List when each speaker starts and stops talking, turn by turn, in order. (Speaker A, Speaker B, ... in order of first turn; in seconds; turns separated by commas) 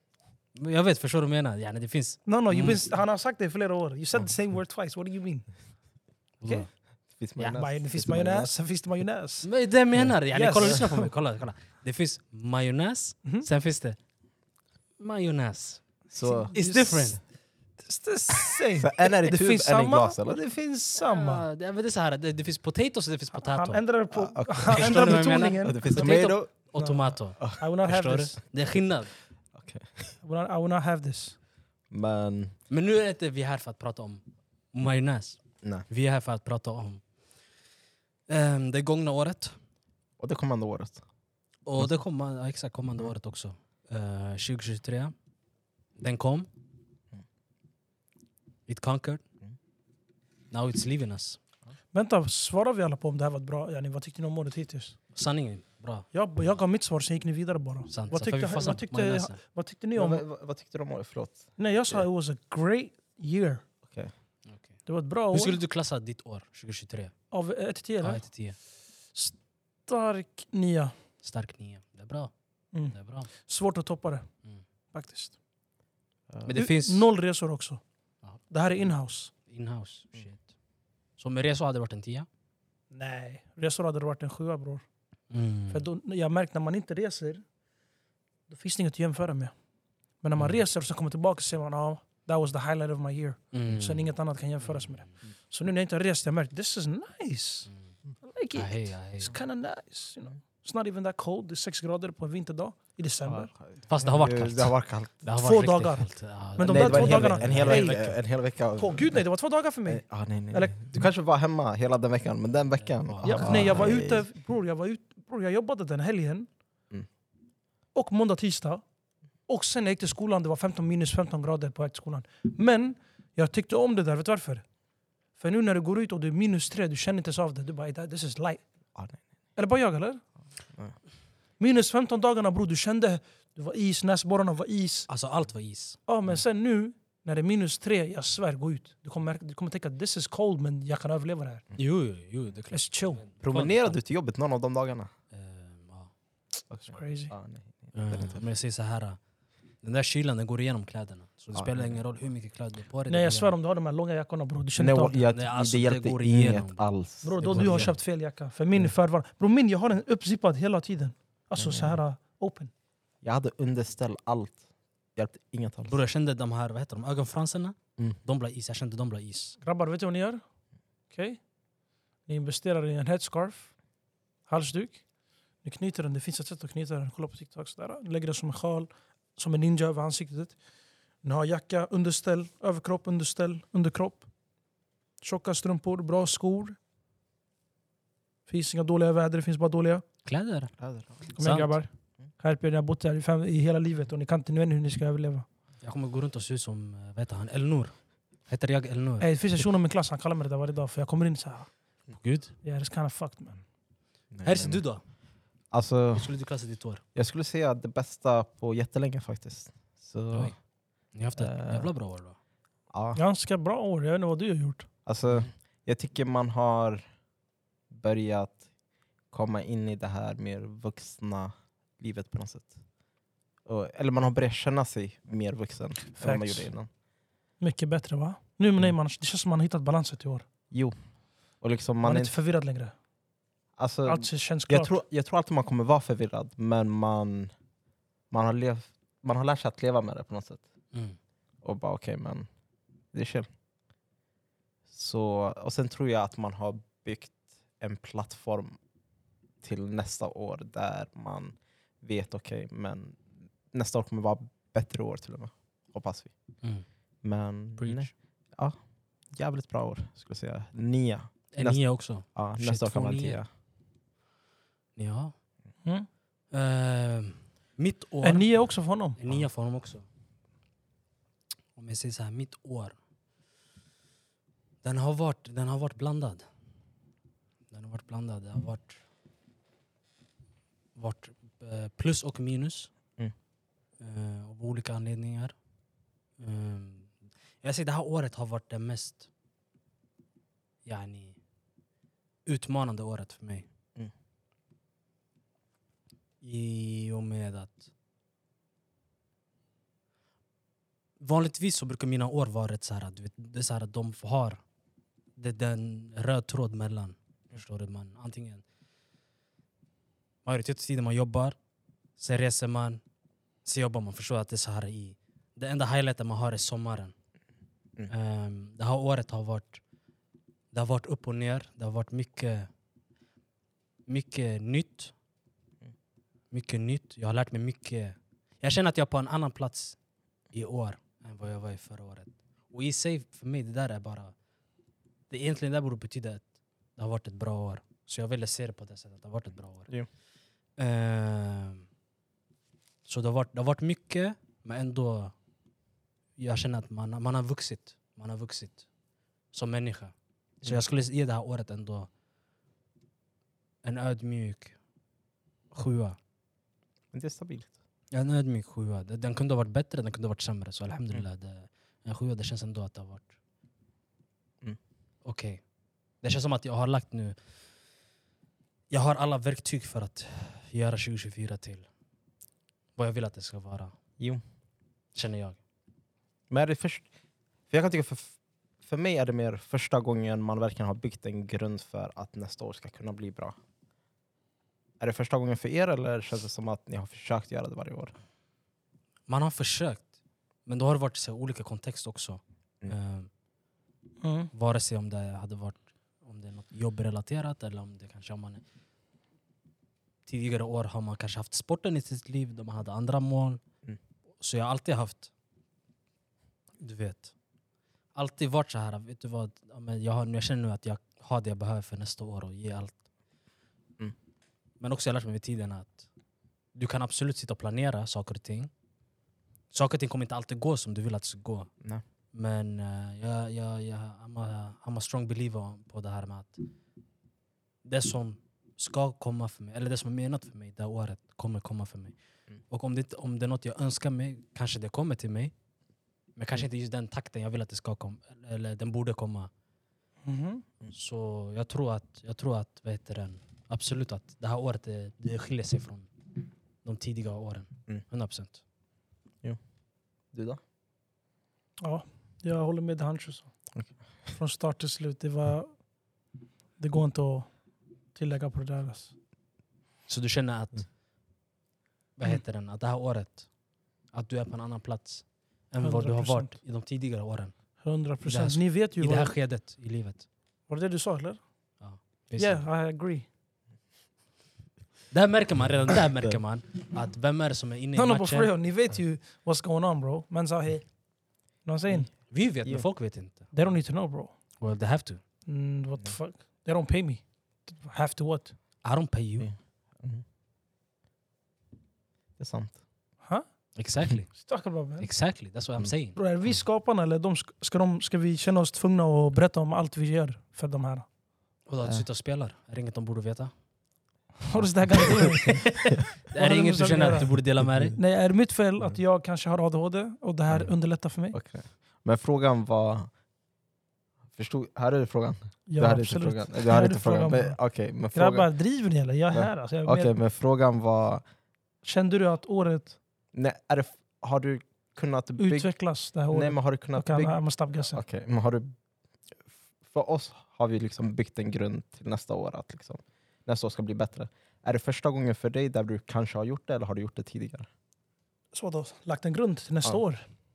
Speaker A: 0.5-2.9, Speaker B: 2.2-5.5, Speaker A: 6.4-6.7, Speaker C: 7.2-8.5, Speaker B: 7.4-9.5, Speaker A: 9.4-14.0, Speaker B: 10.3-11.1, Speaker A: 15.0-15.9, Speaker C: 16.1-16.6, Speaker B: 16.2-17.1, Speaker A: 16.5-17.2, Speaker B: 17.8-21.5, Speaker C: 18.8-20.4, Speaker A: 21.0-23.8, Speaker B: 23.3-28.4, Speaker C: 24.1-26.7, Speaker A: 24.7-29.1, Speaker C: 29.5-30.2, Speaker B: 30.2-31.4, Speaker C: 31.9-32.5, Speaker A: 32.7-37.0, Speaker C: 35.6-35.9, Speaker A: 38.3-39.6, Speaker C: 40.2-41.0, Speaker A: 41.6-45.1, Speaker A: 46.0-46.5, Speaker A: 48.7-49.2, Speaker A: 50.5-51.4, Speaker B: 51.9-55.0, Speaker A: 55.1-56.0, Speaker B: 56.1-60.2, Speaker A: 57.9-59.4, Speaker C: 59.9-62.0, Speaker B: 61.6-63.6, Speaker C: 63.8-64.1, Speaker A: 64.5-64.7, Speaker B: 64.8-65.6, Speaker A: 65.3-67.1, Speaker B: 67.3-68.3, Speaker A: 68.0-68.6, Speaker B: 69.9-70.9, Speaker A: 71.2-72.3, Speaker B: 72.7-74.3, Speaker A: 72.9-73.3, Speaker B: 74.9-75.3, Speaker A: 76.4-77.0, Speaker B: 76.5-77.8, Speaker B: 78.5-79.3, Speaker A: 79.4-80.5, Speaker A: 81.2-82.3, Speaker B: 82.9-84.8, Speaker A: 85.3-85.9, Speaker B: 85.7-87.4, Speaker B: 88.5-89.5, Speaker B: 90.2-97.7, Speaker A: 93.5-94.1, Speaker A: 94.6-95.2, Speaker A: 97.7-97.9, Speaker B: 98.2-103.5, Speaker A: 98.5-99.3, Speaker C: 103.2-105.2, Speaker A: 103.9-108.1, Speaker B: 105.4-108.2, Speaker C: 106.6-109.2, Speaker B: 108.8-110.8, Speaker C: 109.8-114.2, Speaker A: 112.7-113.9, Speaker B: 113.2-116.5, Speaker B: 117.9-118.8, Speaker B: 119.5-124.6, Speaker B: 125.4-128.6, Speaker C: 128.9-129.2, Speaker B: 129.6-130.2, Speaker B: 131.6-135.1, Speaker A: 135.1-136.0, Speaker B: 136.1-141.7, Speaker A: 141.8-144.0, Speaker B: 142.7-143.2, Speaker C: 143.4-145.1, Speaker A: 145.3-146.1, Speaker C: 146.7-148.4, Speaker B: 146.9-147.3, Speaker A: 147.9-149.2, Speaker A: 149.8-153.5, Speaker C: 151.5-152.0, Speaker B: 153.1-155.2, Speaker C: 154.8-158.0, Speaker A: 155.3-158.0, Speaker B: 157.2-162.7, Speaker C: 161.6-162.0, Speaker C: 163.2-164.6, Speaker C: 165.1-165.9, Speaker A: 165.9-169.6, Speaker B: 169.6-170.4, Speaker B: 171.1-171.4, Speaker B: 172.3-173.7, Speaker B: 174.5-175.0, Speaker B: 175.6-180.6, Speaker B: 181.2-184.3, Speaker B: 185.2-186.8, Speaker B: 188.5-190.0, Speaker A: 190.2-190.7, Speaker C: 190.8-191.3, Speaker A: 191.3-191.8, Speaker B: 191.3-195.4, Speaker A: 195.8-199.3, Speaker B: 199.2-201.7, Speaker A: 202.1-202.5, Speaker B: 202.6-203.6, Speaker C: 204.3-204.8, Speaker A: 204.4-205.0, Speaker C: 205.7-206.3, Speaker A: 206.1-207.0, Speaker C: 207.1-210.5, Speaker A: 211.1-212.4, Speaker C: 211.3-211.9, Speaker C: 212.9-213.2, Speaker B: 213.1-214.9, Speaker C: 215.1-217.0, Speaker C: 217.9-218.6, Speaker C: 219.3-222.8, Speaker C: 223.7-226.9, Speaker B: 226.2-226.7, Speaker B: 227.6-230.4, Speaker C: 230.7-230.9, Speaker C: 231.6-232.3, Speaker B: 232.0-232.9, Speaker C: 233.8-237.5, Speaker B: 234.1-234.9, Speaker C: 238.3-240.6, Speaker A: 240.9-241.2, Speaker C: 241.6-242.5, Speaker C: 243.1-243.5, Speaker C: 244.9-248.8, Speaker C: 249.6-256.3, Speaker C: 257.2-258.8, Speaker A: 257.8-258.1, Speaker C: 259.3-263.5, Speaker A: 261.5-263.4, Speaker A: 264.9-265.3, Speaker A: 266.5-268.5, Speaker B: 268.2-269.2, Speaker A: 269.2-270.1, Speaker A: 271.7-272.9, Speaker A: 274.8-276.4, Speaker A: 277.7-279.0, Speaker A: 280.9-282.9, Speaker A: 284.0-285.5, Speaker A: 286.4-289.3, Speaker A: 290.8-291.4, Speaker A: 292.4-293.7, Speaker A: 296.4-297.9, Speaker A: 301.2-304.6, Speaker A: 305.4-308.6, Speaker A: 310.4-311.6, Speaker A: 312.2-313.0, Speaker A: 313.6-317.1, Speaker A: 318.1-319.8, Speaker A: 320.7-322.7, Speaker A: 324.1-325.1, Speaker A: 326.5-330.0, Speaker A: 330.5-334.3, Speaker A: 335.3-336.4, Speaker A: 336.9-339.9, Speaker A: 340.8-341.9, Speaker A: 343.1-345.3, Speaker A: 346.4-348.9, Speaker A: 349.5-352.1, Speaker A: 353.8-354.8, Speaker A: 355.7-356.2, Speaker C: 357.1-357.7, Speaker A: 358.1-363.3, Speaker A: 365.2-365.6, Speaker A: 366.2-367.4, Speaker A: 368.9-371.9, Speaker A: 372.9-373.9, Speaker A: 375.1-375.6, Speaker C: 376.5-377.1, Speaker C: 377.7-383.6, Speaker C: 385.0-388.1, Speaker A: 389.3-390.1, Speaker A: 390.6-393.3, Speaker B: 394.2-394.5, Speaker A: 394.5-398.6, Speaker A: 400.2-403.6, Speaker A: 404.4-405.3, Speaker A: 406.8-407.3, Speaker A: 408.1-413.0, Speaker A: 414.8-416.1, Speaker A: 416.7-418.7, Speaker A: 419.7-421.7, Speaker A: 422.3-426.6, Speaker A: 427.8-432.1, Speaker A: 432.7-435.5, Speaker A: 436.4-439.5, Speaker B: 440.2-440.6, Speaker A: 440.9-446.1, Speaker A: 446.8-448.6, Speaker C: 450.3-450.6, Speaker B: 451.8-453.5, Speaker B: 454.3-455.9, Speaker B: 456.8-457.5, Speaker B: 458.1-459.1, Speaker A: 460.1-460.9, Speaker A: 462.1-463.5, Speaker A: 464.1-470.2, Speaker B: 465.8-466.6, Speaker B: 467.8-469.3, Speaker B: 470.7-471.4, Speaker A: 471.8-472.7, Speaker B: 472.4-473.2, Speaker A: 475.1-478.5, Speaker B: 477.9-481.0, Speaker B: 481.6-482.1, Speaker A: 482.3-483.5, Speaker B: 483.5-484.3, Speaker A: 484.6-485.2, Speaker B: 485.4-488.6, Speaker A: 488.8-489.5, Speaker C: 489.4-490.2, Speaker C: 492.4-492.8, Speaker A: 493.7-494.5, Speaker B: 494.3-495.1, Speaker A: 495.0-496.2, Speaker B: 496.1-501.1, Speaker A: 501.6-503.5, Speaker B: 504.4-507.4, Speaker C: 504.6-505.1, Speaker A: 505.1-508.0, Speaker C: 507.6-507.9, Speaker B: 507.9-511.4, Speaker C: 510.5-510.7, Speaker C: 511.3-513.1, Speaker C: 514.3-518.5, Speaker B: 515.7-517.6, Speaker B: 518.1-520.1, Speaker C: 519.3-521.2, Speaker B: 521.8-523.0, Speaker C: 523.3-525.7, Speaker B: 525.4-528.0, Speaker C: 526.3-528.7, Speaker C: 529.8-537.7, Speaker B: 538.5-540.2